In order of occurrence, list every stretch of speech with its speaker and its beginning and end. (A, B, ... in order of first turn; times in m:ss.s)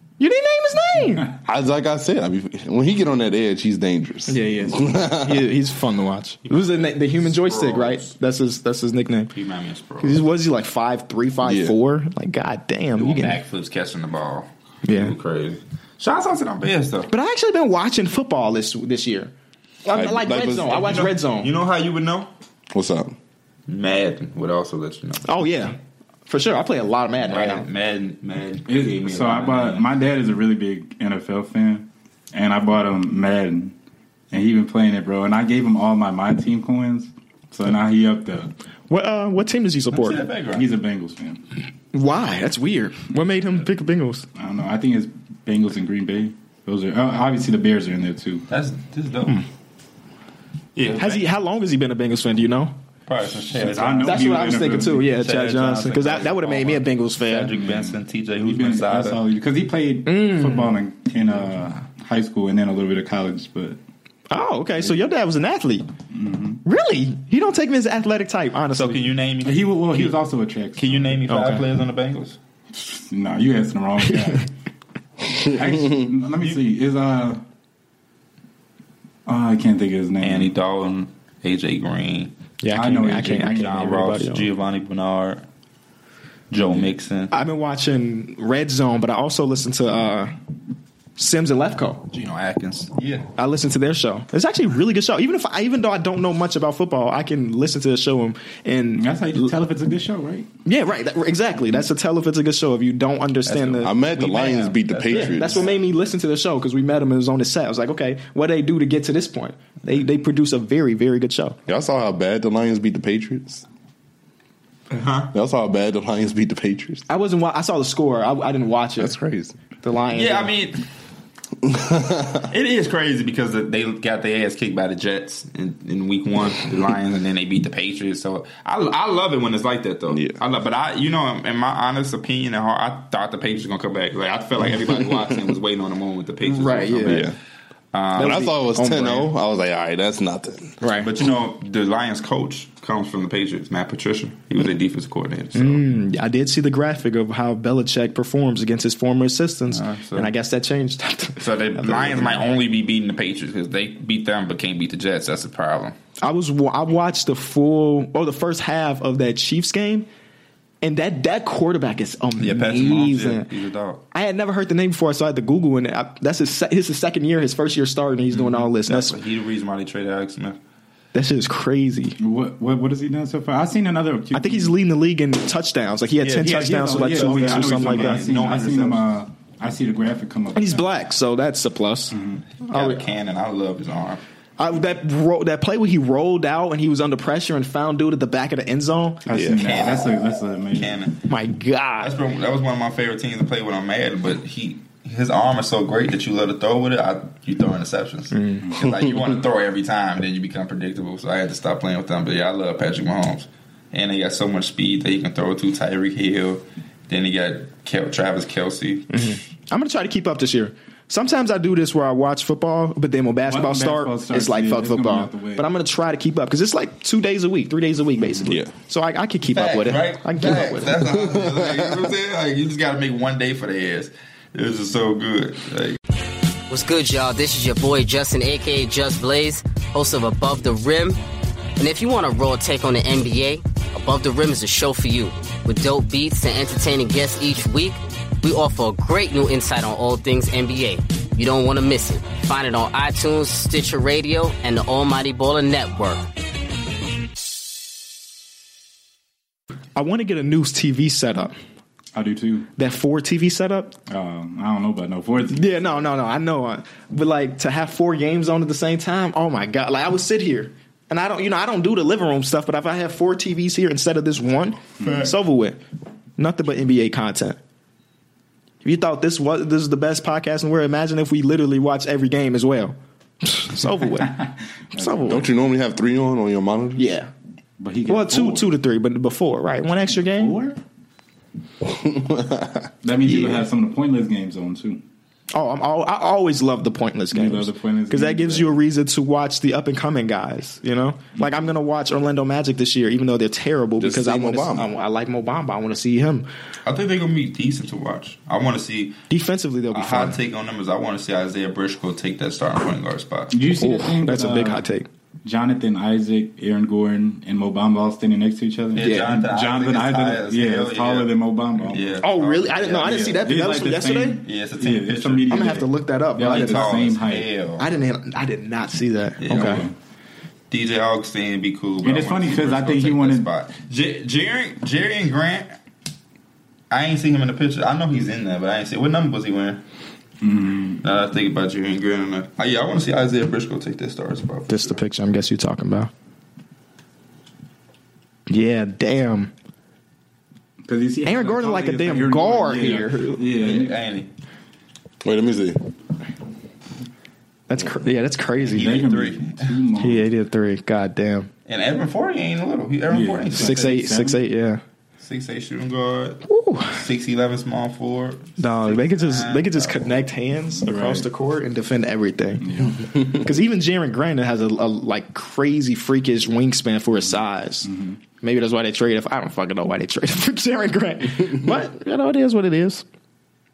0:00.2-0:01.3 A
0:01.4-0:05.5 B
0:04.3-0:09.3 A
0:06.5-0:08.1 C
0:09.3-0:10.2 C
0:10.0-0:13.4 A
0:11.4-0:11.8 B
0:12.9-0:17.1 C
0:14.8-0:15.1 A
0:17.1-0:19.3 A
0:19.8-0:21.5 A
0:19.9-0:21.0 B
0:20.7-0:22.3 C
0:22.7-0:23.2 B
0:23.7-0:25.4 C
0:25.2-0:25.8 A
0:26.3-0:27.6 A
0:27.2-0:29.9 C
0:28.7-0:33.8 D
0:34.3-0:38.5 D
0:38.9-0:40.2 A
0:39.9-0:40.7 C
0:40.5-0:41.4 D
0:41.9-0:44.3 A
0:44.4-0:48.4 D
0:48.5-0:49.4 C
0:50.8-0:51.3 C
0:51.0-0:52.7 A
0:53.1-0:59.2 C
0:53.5-0:55.1 D
0:54.0-0:57.5 A
0:57.4-1:03.8 D
1:00.0-1:00.8 A
1:04.3-1:05.9 A
1:06.1-1:06.6 D
1:06.6-1:09.0 A
1:08.7-1:10.1 C
1:09.4-1:11.3 D
1:10.8-1:12.4 C
1:11.3-1:11.6 A
1:12.7-1:14.5 D
1:15.4-1:17.4 D
1:19.3-1:20.5 D
1:20.2-1:22.4 C
1:22.6-1:24.5 A
1:22.7-1:24.0 D
1:23.1-1:25.4 C
1:26.5-1:27.3 C
1:27.3-1:30.4 A
1:31.2-1:32.0 A
1:32.1-1:33.3 C
1:33.4-1:39.5 A
1:39.0-1:40.5 D
1:40.6-1:43.9 A
1:43.4-1:45.8 C
1:43.8-1:45.7 B
1:45.1-1:51.6 A
1:51.6-1:53.6 B
1:54.9-1:55.3 C
1:55.3-1:57.1 B
1:57.1-1:59.1 A
1:59.0-1:59.6 B
1:59.8-2:00.5 A
2:00.1-2:00.8 C
2:01.6-2:02.4 B
2:02.5-2:17.3 C
2:10.1-2:10.4 B
2:16.4-2:17.2 A
2:17.1-2:17.4 B
2:17.9-2:18.4 C
2:18.2-2:19.3 A
2:18.2-2:20.8 B
2:20.8-2:21.1 A
2:21.0-2:25.8 C
2:25.6-2:32.4 A
2:29.7-2:30.3 C
2:31.4-2:36.0 C
2:36.2-2:40.1 A
2:40.8-2:43.5 A
2:42.4-2:44.0 C
2:44.1-2:49.2 A
2:48.3-2:50.6 C
2:51.1-2:52.2 A
2:52.2-2:54.8 D
2:54.3-2:58.3 A
2:56.2-2:59.0 C
2:56.3-3:00.9 D
3:00.6-3:03.1 A
3:02.1-3:02.4 D
3:02.6-3:04.2 C
3:04.6-3:09.3 A
3:09.3-3:11.0 D
3:09.3-3:09.8 B
3:09.6-3:11.2 C
3:11.3-3:12.1 A
3:12.0-3:29.4 C
3:18.3-3:18.7 A
3:29.1-3:41.0 A
3:33.5-3:35.7 D
3:38.2-3:38.5 D
3:39.5-3:46.0 C
3:41.2-3:42.0 B
3:46.7-3:51.2 E
3:51.8-4:06.3 E
4:10.0-4:11.6 A
4:12.1-4:12.7 D
4:12.8-4:14.0 A
4:14.1-4:15.8 D
4:15.5-4:25.8 A
4:25.0-4:25.3 C
4:26.4-4:27.6 A
4:28.8-4:35.5 A
4:34.4-4:35.4 D
4:35.3-4:37.1 B
4:37.0-4:37.3 A
4:37.8-4:38.7 D
4:38.1-4:40.6 A
4:40.1-4:40.8 D
4:41.8-4:42.9 B
4:43.0-4:45.0 D
4:43.2-4:43.6 A
4:45.5-4:56.5 A
4:47.3-4:48.8 D
4:54.0-4:54.9 B
4:56.8-4:59.2 C
4:59.3-5:00.4 A
4:59.9-5:03.6 C
5:03.5-5:04.9 D
5:03.8-5:05.1 A
5:05.4-5:12.2 D
5:08.9-5:11.3 C
5:09.0-5:09.3 A
5:11.9-5:13.1 C
5:12.2-5:14.4 A
5:12.9-5:17.5 D
5:14.4-5:15.8 C
5:15.5-5:17.1 A
5:16.4-5:17.9 C
5:17.8-5:19.8 A
5:19.4-5:19.9 C
5:19.5-5:20.0 D
5:20.7-5:25.8 C
5:22.0-5:23.5 D
5:26.9-5:29.8 C
5:30.4-5:31.0 D
5:31.0-5:35.0 C
5:34.7-5:36.1 A
5:38.5-5:39.5 A
5:40.8-5:44.0 D
5:41.2-5:43.4 A
5:43.5-5:44.3 C
5:45.2-5:45.8 B
5:47.7-5:48.9 A
5:48.6-5:49.8 C
5:48.7-5:50.3 D
5:50.0-5:51.5 A
5:51.7-5:54.1 C
5:53.1-5:54.4 D
5:53.5-5:54.8 A
5:55.2-6:00.2 C
5:56.5-5:57.0 A
5:58.6-6:07.9 A
6:00.8-6:01.3 D
6:02.6-6:03.2 D
6:07.2-6:08.2 D
6:08.4-6:13.0 A